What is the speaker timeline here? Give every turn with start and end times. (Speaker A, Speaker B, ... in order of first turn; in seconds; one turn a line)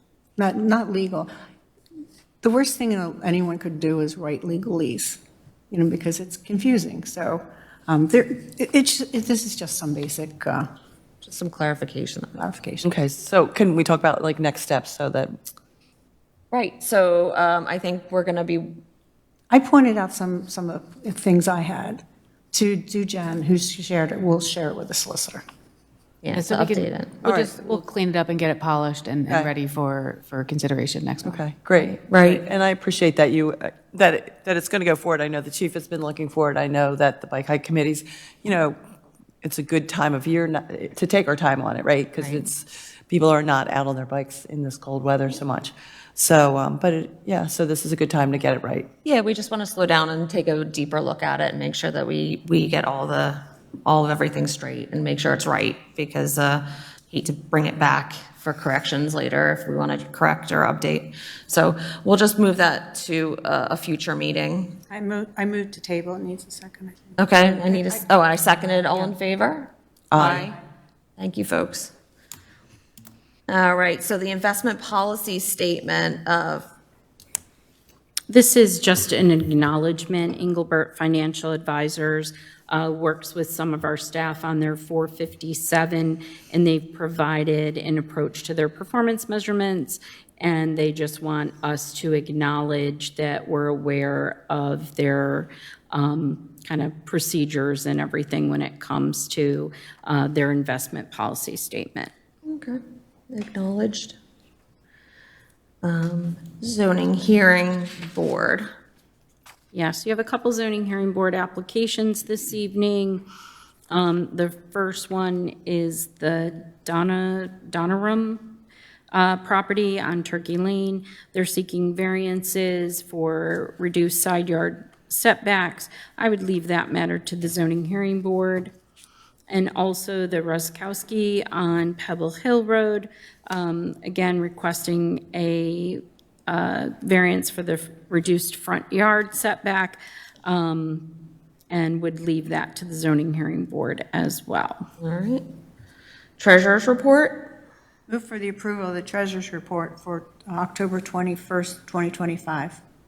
Speaker A: 0.4-1.3
Speaker A: 2.4-10.7
Speaker B: 11.2-12.4
Speaker A: 12.4-12.9
Speaker C: 12.8-15.3
Speaker B: 16.5-18.8
Speaker A: 19.5-25.4
Speaker B: 26.2-27.7
Speaker D: 26.3-31.4
Speaker C: 27.2-27.6
Speaker C: 31.2-38.8
Speaker B: 31.8-32.4
Speaker C: 39.4-48.9
Speaker B: 42.2-42.5
Speaker B: 49.0-64.8
Speaker A: 64.9-68.0
Speaker B: 67.2-70.6
Speaker C: 70.1-70.5
Speaker B: 71.2-71.9
Speaker B: 73.5-76.7
Speaker E: 78.3-102.1
Speaker B: 102.5-104.2
Speaker B: 105.8-108.7
Speaker E: 109.7-113.2
Speaker E: 113.9-118.6
Speaker E: 119.1-128.7
Speaker E: 129.5-141.1
Speaker E: 141.7-144.9
Speaker B: 145.0-145.4
Speaker B: 146.4-147.6
Speaker A: 148.1-152.8